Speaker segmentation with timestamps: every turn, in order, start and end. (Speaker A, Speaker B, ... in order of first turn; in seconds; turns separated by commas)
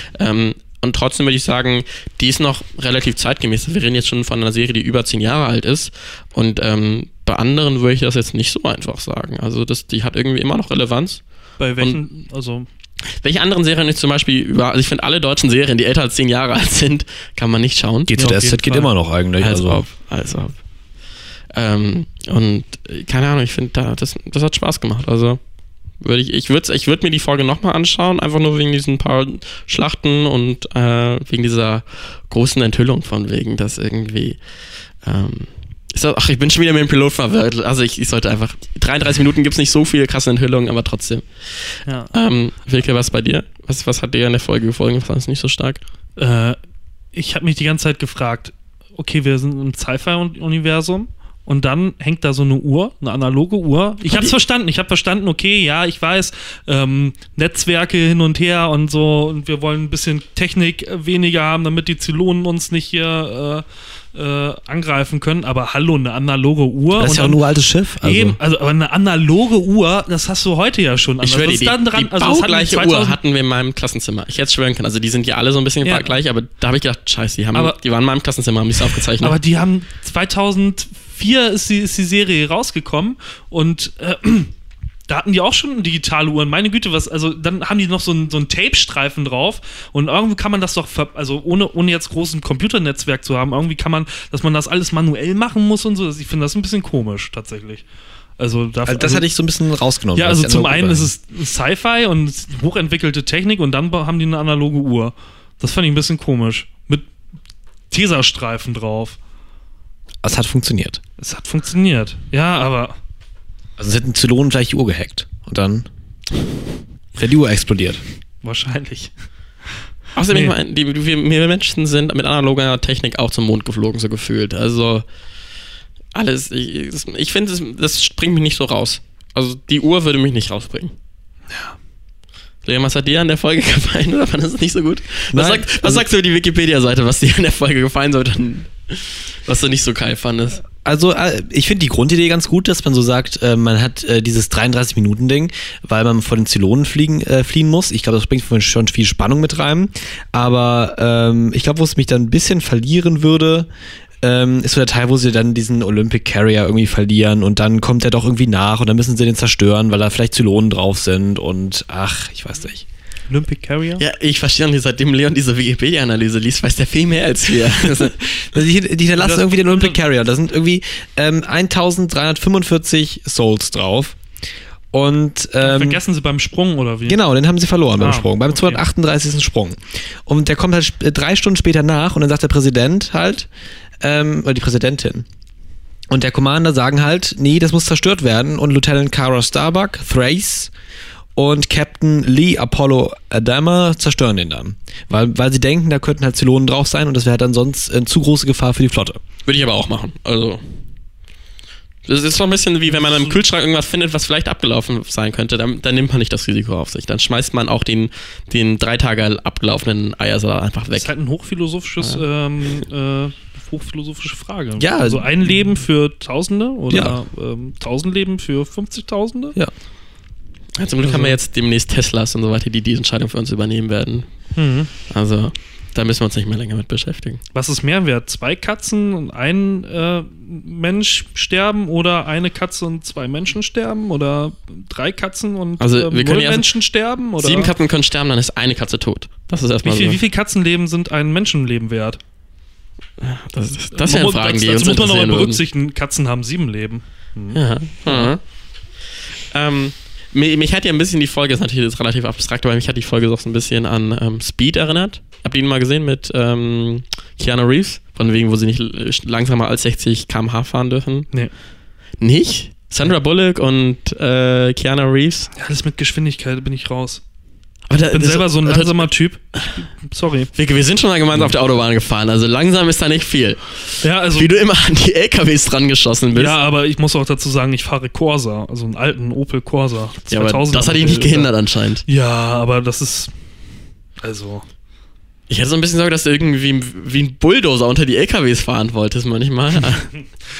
Speaker A: 0.1-11.2, Speaker B: 11.6-12.7, Speaker A: 13.2-18.1, Speaker C: 18.1-19.9, Speaker B: 18.2-18.9, Speaker A: 19.4-20.5, Speaker A: 21.5-25.4, Speaker A: 26.0-34.4, Speaker A: 35.0-41.3, Speaker A: 42.1-45.8, Speaker B: 46.2-46.6, Speaker B: 47.1-67.4, Speaker A: 54.0-54.4, Speaker C: 67.0-68.4, Speaker B: 68.0-73.2, Speaker A: 71.2-79.4, Speaker B: 75.8-76.1, Speaker B: 79.2-84.5, Speaker B: 85.1-97.8, Speaker B: 98.4-99.2, Speaker C: 98.8-101.1, Speaker B: 100.1-107.0, Speaker B: 107.9-109.2, Speaker C: 110.2-111.0, Speaker B: 111.2-113.0, Speaker C: 113.8-115.9, Speaker C: 117.2-118.0, Speaker B: 118.4-119.1, Speaker A: 120.2-125.0, Speaker B: 120.3-120.5, Speaker A: 126.1-130.9, Speaker B: 131.5-131.8, Speaker A: 132.6-140.6, Speaker C: 135.3-136.1, Speaker C: 140.8-153.7, Speaker C: 154.2-162.8, Speaker B: 163.3-164.0, Speaker A: 164.0-168.1, Speaker C: 167.7-174.2, Speaker B: 169.2-170.0, Speaker C: 174.9-176.0, Speaker B: 175.6-177.2, Speaker C: 177.1-183.5, Speaker B: 178.0-178.8, Speaker C: 184.0-185.2, Speaker C: 186.1-190.7, Speaker C: 191.3-199.2, Speaker A: 199.4-200.6, Speaker A: 202.1-211.1, Speaker B: 202.9-203.4, Speaker B: 211.0-219.6, Speaker C: 214.8-215.3, Speaker C: 216.9-217.2, Speaker A: 220.8-224.2, Speaker B: 221.0-221.4, Speaker B: 224.6-224.9, Speaker A: 225.1-227.4, Speaker B: 227.5-237.7, Speaker A: 235.8-236.7, Speaker A: 237.4-240.2, Speaker B: 239.8-242.2, Speaker A: 243.2-245.6, Speaker B: 243.9-248.3, Speaker A: 247.5-248.4, Speaker A: 249.5-261.3, Speaker A: 262.2-265.5, Speaker B: 265.6-267.2, Speaker A: 267.9-269.1, Speaker B: 268.1-270.5, Speaker A: 270.5-276.6, Speaker B: 274.0-274.6, Speaker B: 276.3-281.5, Speaker A: 280.3-282.0, Speaker B: 282.1-283.3, Speaker B: 284.2-284.6, Speaker A: 285.5-290.1